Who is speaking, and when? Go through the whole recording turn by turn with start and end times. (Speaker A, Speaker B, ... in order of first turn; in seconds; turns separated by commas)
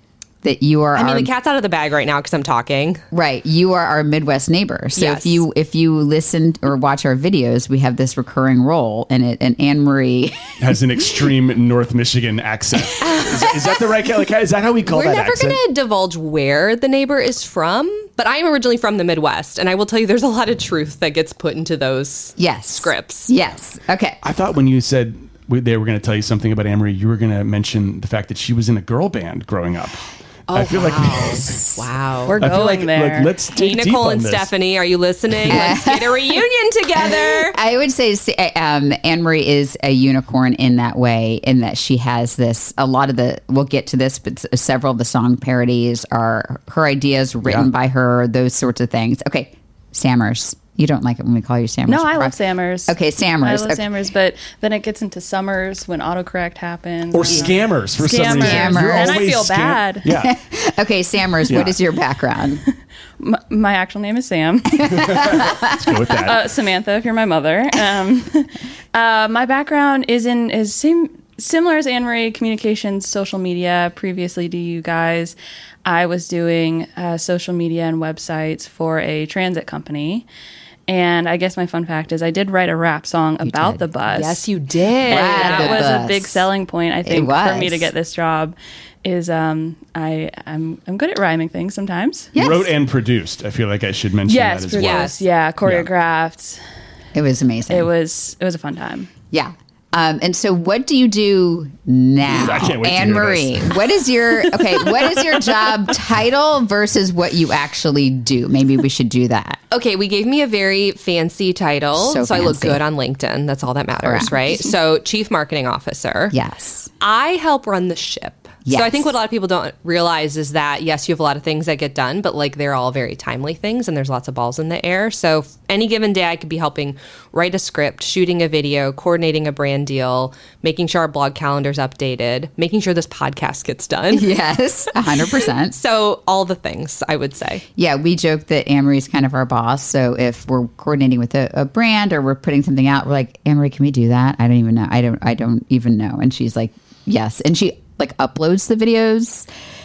Speaker A: 0.4-1.3, Speaker B: 0.9-3.0, Speaker A: 3.1-10.5, Speaker B: 4.9-5.4, Speaker C: 10.6-15.6, Speaker B: 14.8-23.3, Speaker A: 22.4-24.2, Speaker C: 24.2-31.6, Speaker B: 30.5-32.4, Speaker D: 32.2-33.3, Speaker C: 32.4-34.5, Speaker B: 33.5-37.6, Speaker A: 35.5-36.4, Speaker A: 37.0-53.9, Speaker D: 51.9-60.1, Speaker C: 57.1-60.3, Speaker A: 58.1-59.3, Speaker A: 60.2-62.6, Speaker C: 61.5-61.8, Speaker D: 63.2-65.5, Speaker A: 64.8-65.6, Speaker C: 65.1-66.5, Speaker D: 66.1-80.3, Speaker D: 80.9-84.5, Speaker A: 83.4-83.9, Speaker B: 84.1-85.9, Speaker D: 85.1-92.3, Speaker A: 85.1-86.5, Speaker A: 87.0-87.9, Speaker A: 92.3-92.7, Speaker C: 92.3-95.1, Speaker D: 94.2-96.6, Speaker B: 94.7-95.2, Speaker C: 95.6-95.9, Speaker A: 97.1-97.9, Speaker D: 97.7-99.1, Speaker A: 99.3-109.6, Speaker C: 102.3-103.7, Speaker B: 109.7-116.3, Speaker A: 112.0-112.8, Speaker A: 114.0-114.6, Speaker A: 116.3-116.9, Speaker B: 117.0-134.3, Speaker A: 118.6-119.1, Speaker A: 134.1-135.8, Speaker B: 135.7-137.6, Speaker A: 137.8-149.5